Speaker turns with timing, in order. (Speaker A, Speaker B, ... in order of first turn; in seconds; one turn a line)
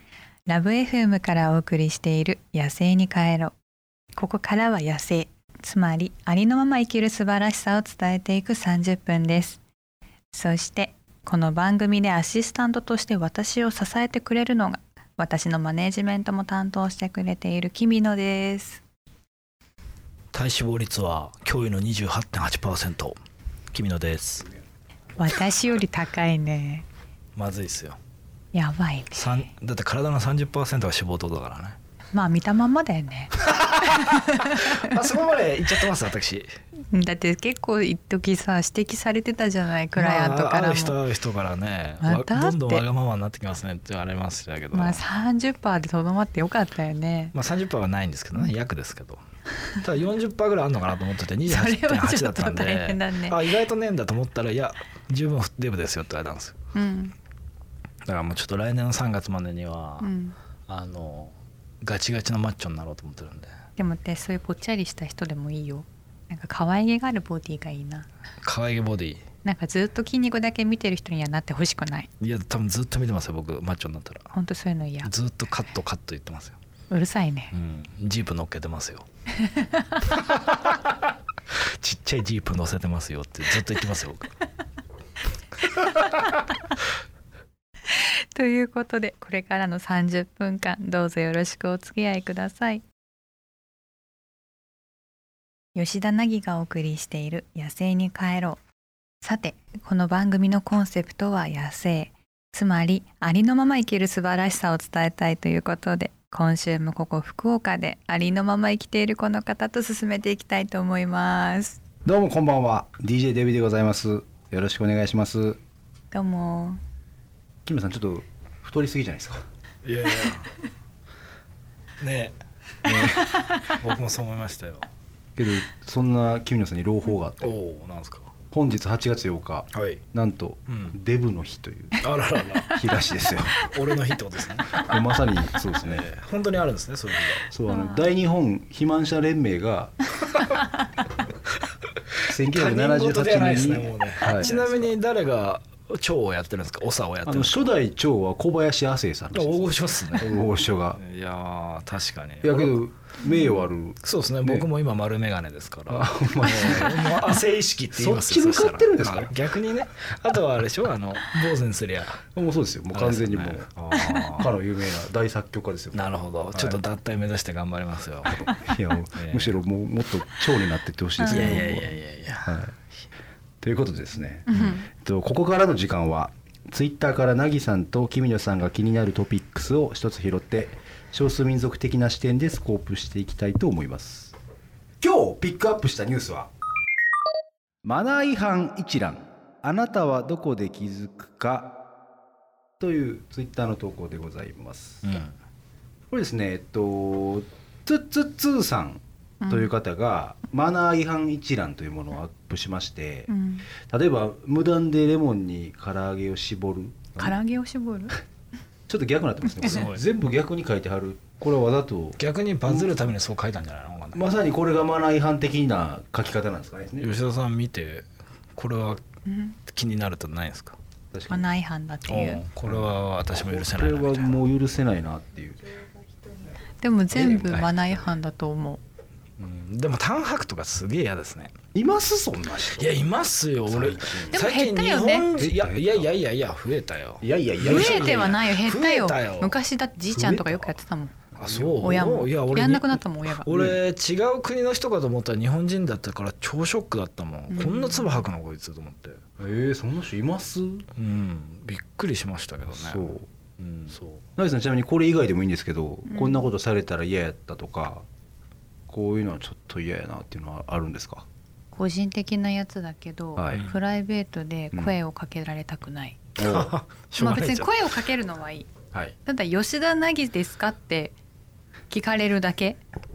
Speaker A: 0.5-3.6
Speaker A: 4.1-9.6
Speaker A: 10.3-18.8
Speaker B: 20.3-23.2
Speaker B: 23.7-24.5
Speaker A: 25.2-26.9
Speaker B: 27.4-28.0
Speaker A: 28.5-29.4
Speaker B: 29.1-31.8
Speaker A: 32.1-35.0
Speaker B: 33.4-36.5
Speaker A: 36.9-41.0
Speaker B: 40.0-45.0
Speaker A: 42.0-42.9
Speaker A: 44.7-47.3
Speaker B: 47.3-49.2
Speaker B: 49.7-56.5
Speaker A: 51.5-53.5
Speaker A: 56.7-57.1
Speaker B: 58.0-60.1
Speaker A: 60.0-60.4
Speaker B: 60.7-63.5
Speaker A: 63.8-68.1
Speaker B: 68.4-69.2
Speaker A: 69.4-72.1
Speaker B: 72.2-74.3
Speaker A: 74.3-75.1
Speaker B: 75.0-76.6
Speaker A: 76.9-77.5
Speaker B: 77.5-79.1
Speaker A: 79.3-80.2
Speaker B: 80.1-84.3
Speaker A: 85.6-86.5
Speaker B: 85.8-86.3
Speaker A: 87.9-92.8
Speaker A: 95.8-98.6
Speaker A: 99.2-111.8
Speaker C: 112.0-115.6
Speaker A: 116.1-116.8
Speaker C: 117.7-119.4
Speaker B: 119.8-120.5
Speaker B: 122.0-124.9
Speaker C: 122.9-123.2
Speaker A: 123.0-123.8
Speaker C: 125.4-127.5
Speaker B: 127.4-128.3
Speaker C: 128.5-132.0
Speaker B: 129.7-130.0
Speaker B: 130.7-131.0
Speaker B: 132.0-135.0
Speaker C: 132.7-133.6
Speaker C: 134.7-136.1
Speaker B: 135.8-137.5
Speaker C: 137.5-140.0
Speaker A: 137.7-138.1
Speaker C: 142.3-144.6
Speaker B: 142.3-147.7
Speaker A: 144.2-144.6
Speaker C: 147.2-151.0
Speaker B: 149.3-150.4
Speaker B: 151.0-152.8
Speaker C: 152.4-154.7
Speaker A: 153.2-153.7
Speaker B: 154.0-162.3
Speaker C: 155.9-157.4
Speaker C: 157.9-159.3
Speaker C: 162.3-163.7
Speaker B: 162.9-164.5
Speaker A: 163.9-164.3
Speaker C: 164.3-166.8
Speaker B: 165.9-168.5
Speaker C: 168.2-172.7
Speaker B: 169.2-169.6
Speaker A: 171.2-171.8
Speaker B: 171.3-172.6
Speaker C: 173.6-184.3
Speaker A: 174.5-174.9
Speaker C: 185.0-186.5
Speaker C: 187.8-191.8
Speaker C: 192.8-195.2
Speaker B: 195.0-195.4
Speaker C: 196.1-203.3
Speaker A: 199.4-199.7
Speaker A: 203.3-203.7
Speaker C: 203.9-207.4
Speaker A: 207.2-208.2
Speaker C: 208.9-213.0
Speaker B: 209.6-210.0
Speaker B: 212.2-214.2
Speaker C: 214.1-217.1
Speaker B: 217.0-219.0
Speaker A: 219.2-219.6
Speaker B: 219.7-220.8
Speaker C: 221.1-221.5
Speaker A: 221.3-222.4
Speaker B: 222.1-224.3
Speaker C: 222.7-225.7
Speaker A: 226.8-228.8
Speaker C: 227.1-227.7
Speaker B: 229.4-231.5
Speaker C: 231.8-233.0
Speaker B: 232.7-239.6
Speaker C: 233.7-234.4
Speaker A: 234.3-235.3
Speaker C: 235.4-236.1
Speaker C: 237.2-238.3
Speaker A: 237.6-241.2
Speaker C: 240.1-240.8
Speaker C: 241.3-242.0
Speaker B: 241.4-249.2
Speaker A: 241.8-243.5
Speaker C: 243.5-243.8
Speaker A: 247.5-248.3
Speaker C: 249.4-250.8
Speaker B: 250.9-254.2
Speaker C: 252.7-253.2
Speaker C: 254.4-258.1
Speaker A: 256.1-256.5
Speaker C: 258.9-261.2
Speaker A: 261.7-266.2
Speaker C: 263.4-263.6
Speaker B: 266.4-267.7
Speaker C: 266.4-266.7
Speaker A: 267.2-268.7
Speaker A: 269.2-271.1
Speaker A: 271.9-272.8